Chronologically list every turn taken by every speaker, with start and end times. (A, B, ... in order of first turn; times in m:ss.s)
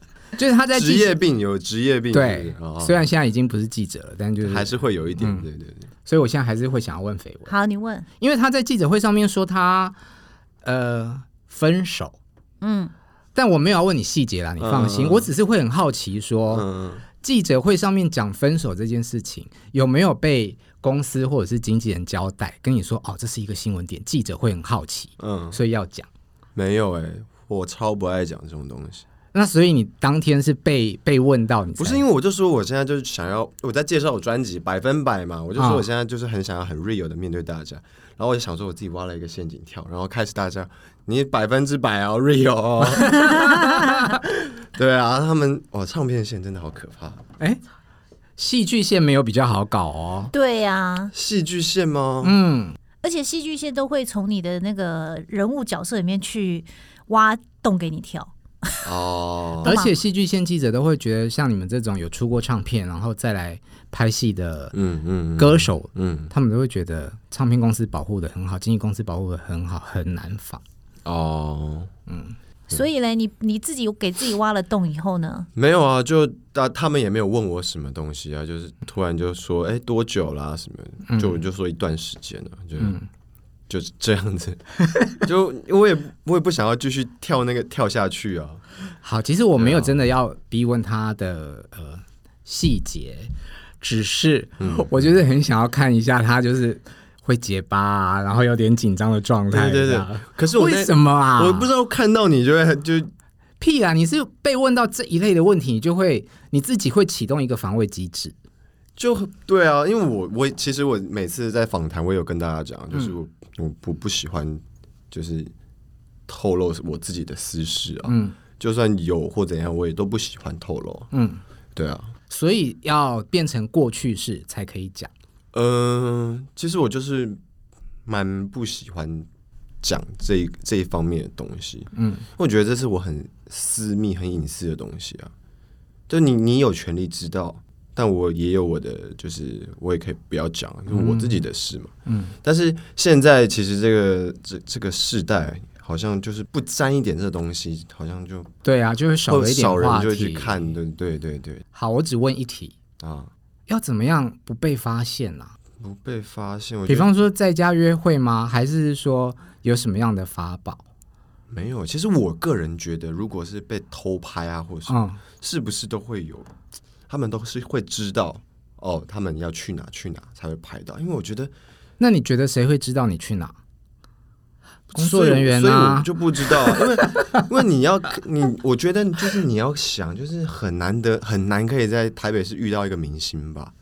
0:00.4-0:01.2 A
0:00.7-0:03.0 B
0:02.1-0:05.5 A
0:04.4-0:05.9 B
0:06.0-0:07.5 A
0:07.5-0:08.1 C
0:08.2-0:10.0 A
0:10.6-0:12.2 A
0:12.6-0:12.9 C
0:13.4-0:16.7 A
0:14.6-0:15.3 B
0:16.5-0:17.0 B
0:17.2-0:26.1 A
0:25.2-0:25.6 B
0:26.6-0:29.0 B
0:29.3-0:32.0 A
0:31.8-0:43.5 B
0:35.6-0:35.8 A
0:43.0-0:44.0 A
0:43.3-0:43.8 C
0:44.2-0:47.2 B
0:48.4-0:50.3 A
0:50.3-0:51.1 C
0:51.1-0:52.4 B
0:52.2-0:52.8 A
0:53.0-0:58.8 C
0:58.8-0:59.7 B
0:59.6-0:59.9 C
0:59.6-1:04.8 A
1:04.7-1:06.3 B
1:05.4-1:10.6 A
1:11.0-1:11.9 B
1:12.1-1:12.4 A
1:12.7-1:15.5 C
1:15.6-1:23.0 B
1:21.1-1:21.4 A
1:22.8-1:23.1 A
1:23.7-1:24.6 B
1:25.2-1:28.6 B
1:29.0-1:41.7 A
1:29.6-1:30.1 B
1:34.6-1:35.1 B
1:39.5-1:43.1 B
1:43.6-1:48.3 A
1:49.0-1:55.5 B
1:56.3-2:01.1 B
1:58.1-1:58.4 A
2:01.1-2:01.4 A
2:01.8-2:02.1 B
2:02.3-2:05.1 A
2:05.5-2:07.4 B
2:08.1-2:09.3 B
2:09.8-2:15.3 B
2:12.0-2:12.2 A
2:16.1-2:28.5 B
2:20.9-2:21.4 A
2:22.1-2:22.3 A
2:28.6-2:30.7 A
2:29.3-2:31.6 B
2:31.7-2:32.8 A
2:33.0-2:33.3 B
2:33.7-2:35.6 A
2:35.8-2:37.1 B
2:36.9-2:40.8 A
2:41.5-2:46.5 B
2:44.9-2:45.2 A
2:47.1-2:51.5 B
2:52.0-2:53.6 A
2:54.9-2:56.1 A
2:54.9-3:03.7 B
2:56.7-2:57.2 A